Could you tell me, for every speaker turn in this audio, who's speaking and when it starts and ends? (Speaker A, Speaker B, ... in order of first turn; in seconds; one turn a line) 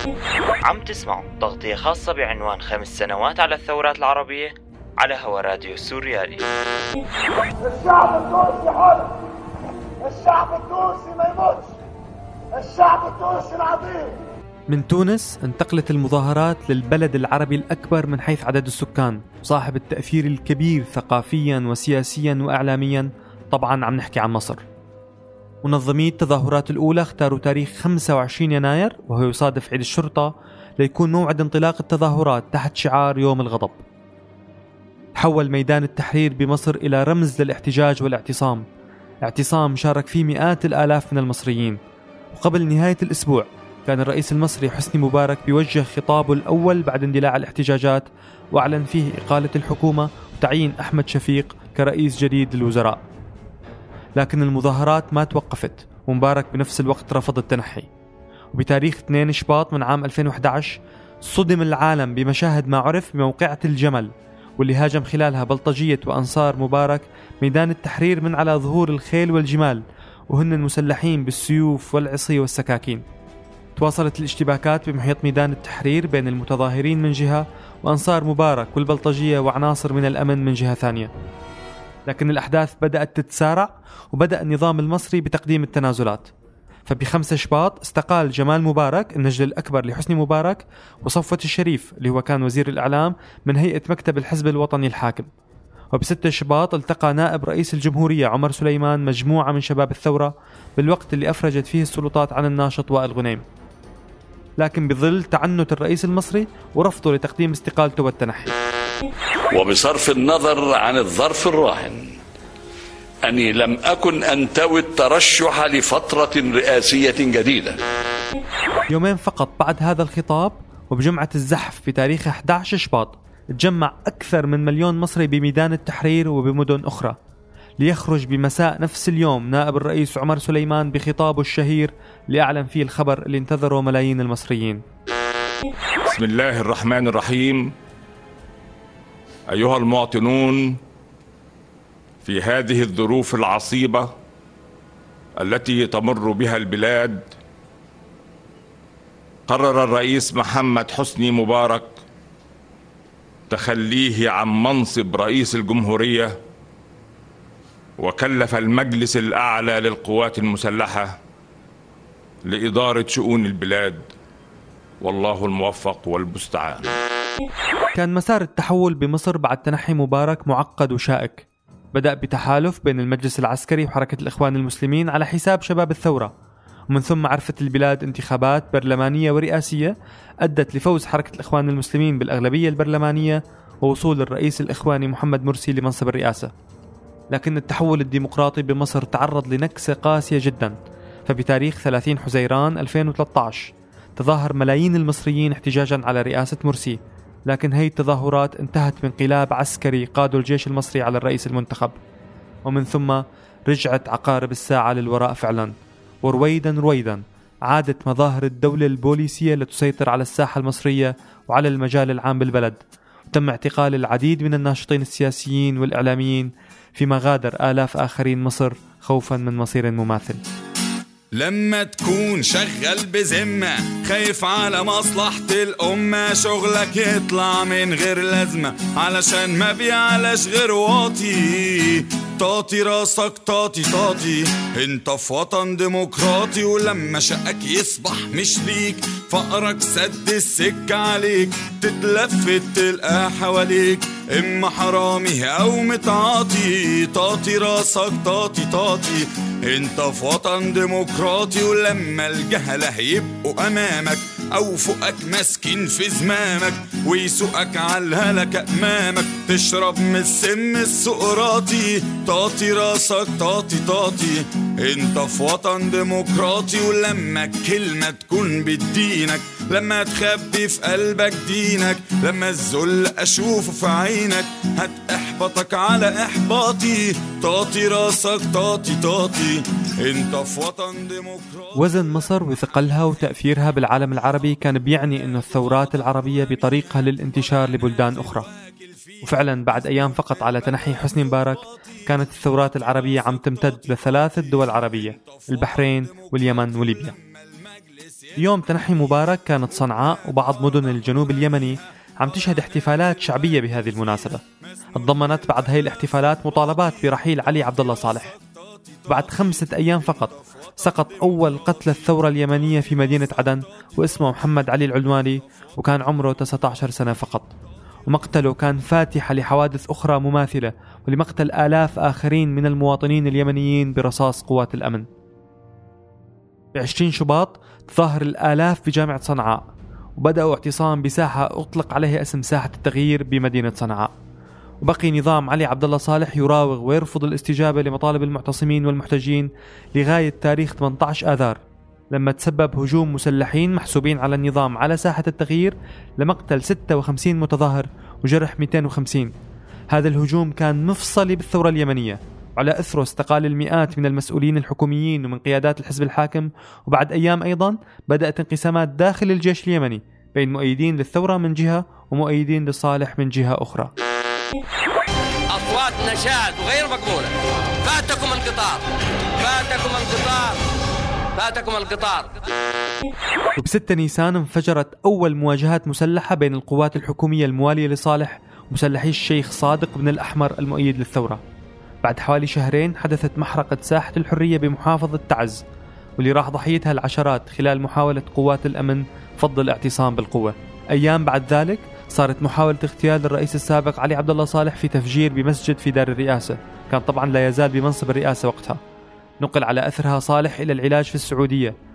Speaker A: 0.7-6.5
Speaker B: 7.6-9.2
Speaker B: 10.0-11.7
Speaker B: 12.6-14.2
Speaker C: 14.7-24.6
Speaker C: 25.6-33.8
Speaker C: 35.2-38.6
Speaker C: 39.2-41.8
Speaker C: 42.3-53.0
Speaker C: 54.2-57.9
Speaker C: 58.5-73.0
Speaker C: 73.8-81.1
Speaker C: 82.1-86.3
Speaker C: 86.9-95.3
Speaker C: 95.9-103.5
Speaker C: 104.6-108.5
Speaker D: 109.5-112.1
Speaker D: 113.2-117.8
Speaker C: 118.9-127.2
Speaker C: 127.8-134.8
Speaker E: 136.1-137.7
Speaker E: 139.5-140.8
Speaker E: 142.2-144.1
Speaker E: 145.4-147.3
Speaker E: 149.5-152.0
Speaker E: 153.5-156.4
Speaker E: 158.0-161.2
Speaker E: 162.5-164.1
Speaker E: 165.0-166.9
Speaker C: 167.9-176.3
Speaker C: 176.9-186.5
Speaker C: 187.3-190.8
Speaker C: 191.3-202.0
Speaker C: 202.7-220.4
Speaker F: 221.4-281.8
Speaker C: 281.8-288.5
Speaker F: 288.9-289.2
Speaker C: 289.2-297.1
Speaker F: 295.2-298.4
Speaker C: 298.4-304.4
Speaker C: 305.0-308.4
Speaker C: 309.1-317.5
Speaker C: 318.1-325.1
Speaker C: 326.8-329.6
Speaker C: 330.2-334.1
Speaker C: 334.8-341.6
Speaker C: 342.1-349.3
Speaker C: 349.9-363.9
Speaker G: 365.5-367.3
Speaker G: 367.9-368.8
Speaker G: 369.4-370.6
Speaker G: 371.4-372.3
Speaker C: 373.6-381.4
Speaker C: 382.0-385.6
Speaker C: 386.2-398.8
Speaker C: 399.4-401.7